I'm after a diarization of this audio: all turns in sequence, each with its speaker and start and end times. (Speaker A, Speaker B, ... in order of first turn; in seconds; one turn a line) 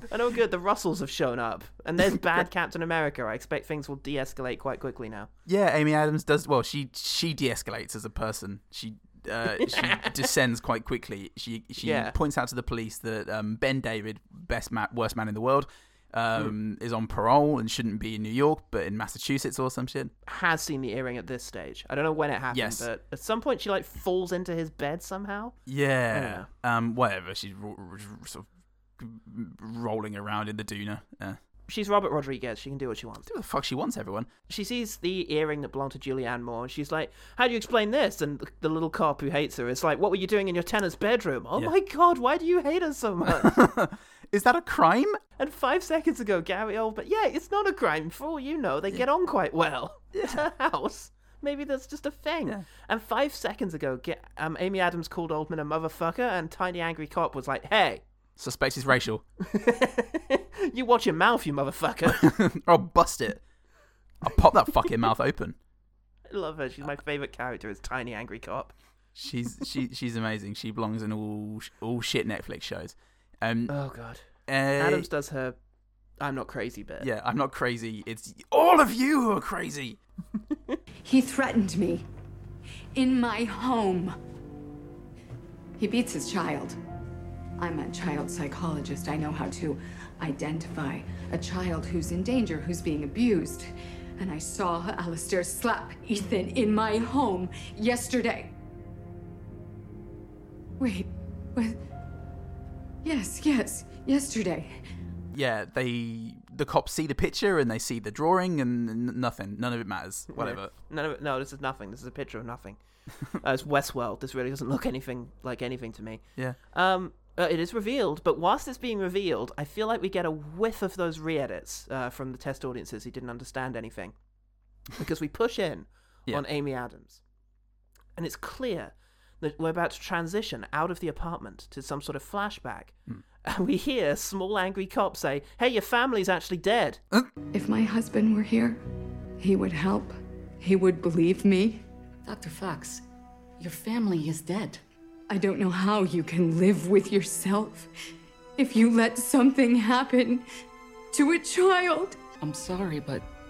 Speaker A: 0.1-5.3
Speaker B: 5.5-20.1
Speaker A: 9.7-10.1
Speaker A: 11.8-12.2
Speaker A: 20.3-25.6
Speaker B: 22.5-22.9
Speaker B: 25.7-28.5
Speaker A: 26.1-26.5
Speaker B: 29.0-31.4
Speaker A: 31.7-33.3
Speaker B: 33.3-34.3
Speaker A: 34.5-43.6
Speaker B: 43.3-45.2
Speaker A: 45.4-58.0
Speaker B: 50.1-50.5
Speaker B: 58.4-59.2
Speaker A: 59.4-62.3
Speaker B: 62.1-63.4
Speaker B: 64.2-65.6
Speaker A: 66.3-68.7
Speaker B: 69.2-73.7
Speaker A: 73.7-74.3
Speaker B: 74.5-75.1
Speaker A: 74.8-75.6
Speaker A: 76.2-77.1
Speaker B: 77.0-80.0
Speaker C: 81.0-82.0
Speaker C: 83.0-84.2
Speaker C: 85.8-86.8
Speaker C: 87.6-98.5
Speaker C: 100.8-101.8
Speaker C: 103.0-104.8
Speaker B: 105.3-110.7
Speaker A: 110.3-112.8
Speaker A: 113.3-124.2
Speaker A: 124.9-127.2
Speaker A: 128.2-137.0
Speaker C: 137.5-138.8
Speaker C: 139.4-141.8
Speaker D: 142.2-143.0
Speaker D: 143.6-144.8
Speaker C: 145.3-147.9
Speaker C: 148.6-150.5
Speaker C: 151.1-152.2
Speaker D: 152.4-153.2